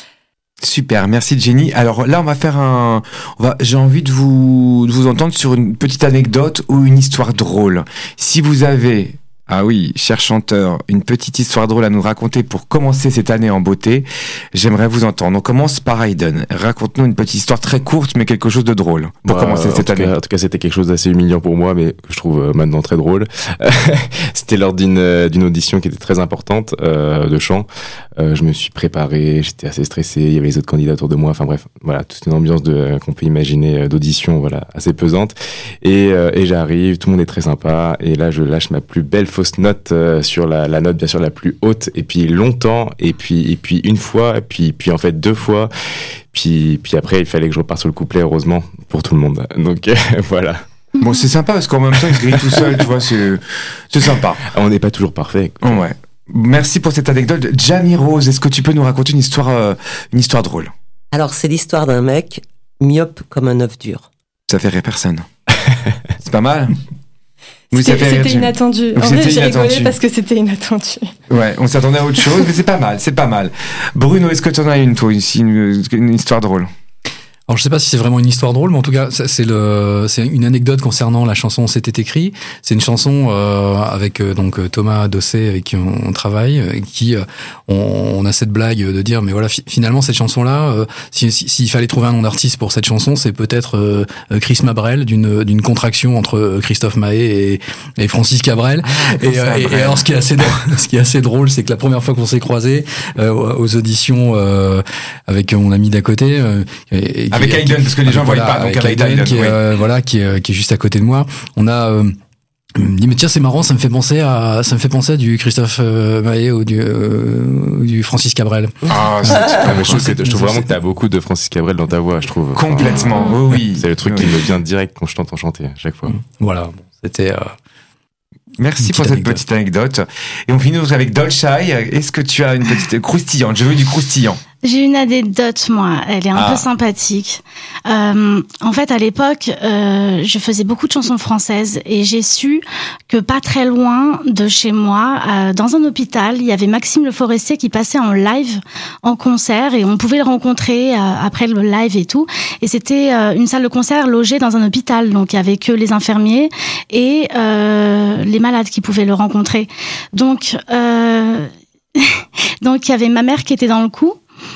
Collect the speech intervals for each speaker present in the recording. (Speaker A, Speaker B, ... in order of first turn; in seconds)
Speaker A: 0.6-20.1, 51.0-54.5, 55.6-60.7, 64.5-65.3, 66.2-66.8, 67.7-70.0, 71.3-76.7, 98.9-100.5, 107.3-109.6, 118.9-120.2, 122.5-124.4, 128.6-134.4, 136.3-136.7
Speaker B: 19.3-50.6, 54.5-55.8, 119.3-126.2
Speaker C: 61.1-64.1
Speaker D: 67.8-71.1
Speaker E: 77.5-112.2, 112.8-119.6, 120.2-120.7, 126.1-127.5, 128.8-129.4
Speaker F: 134.6-164.2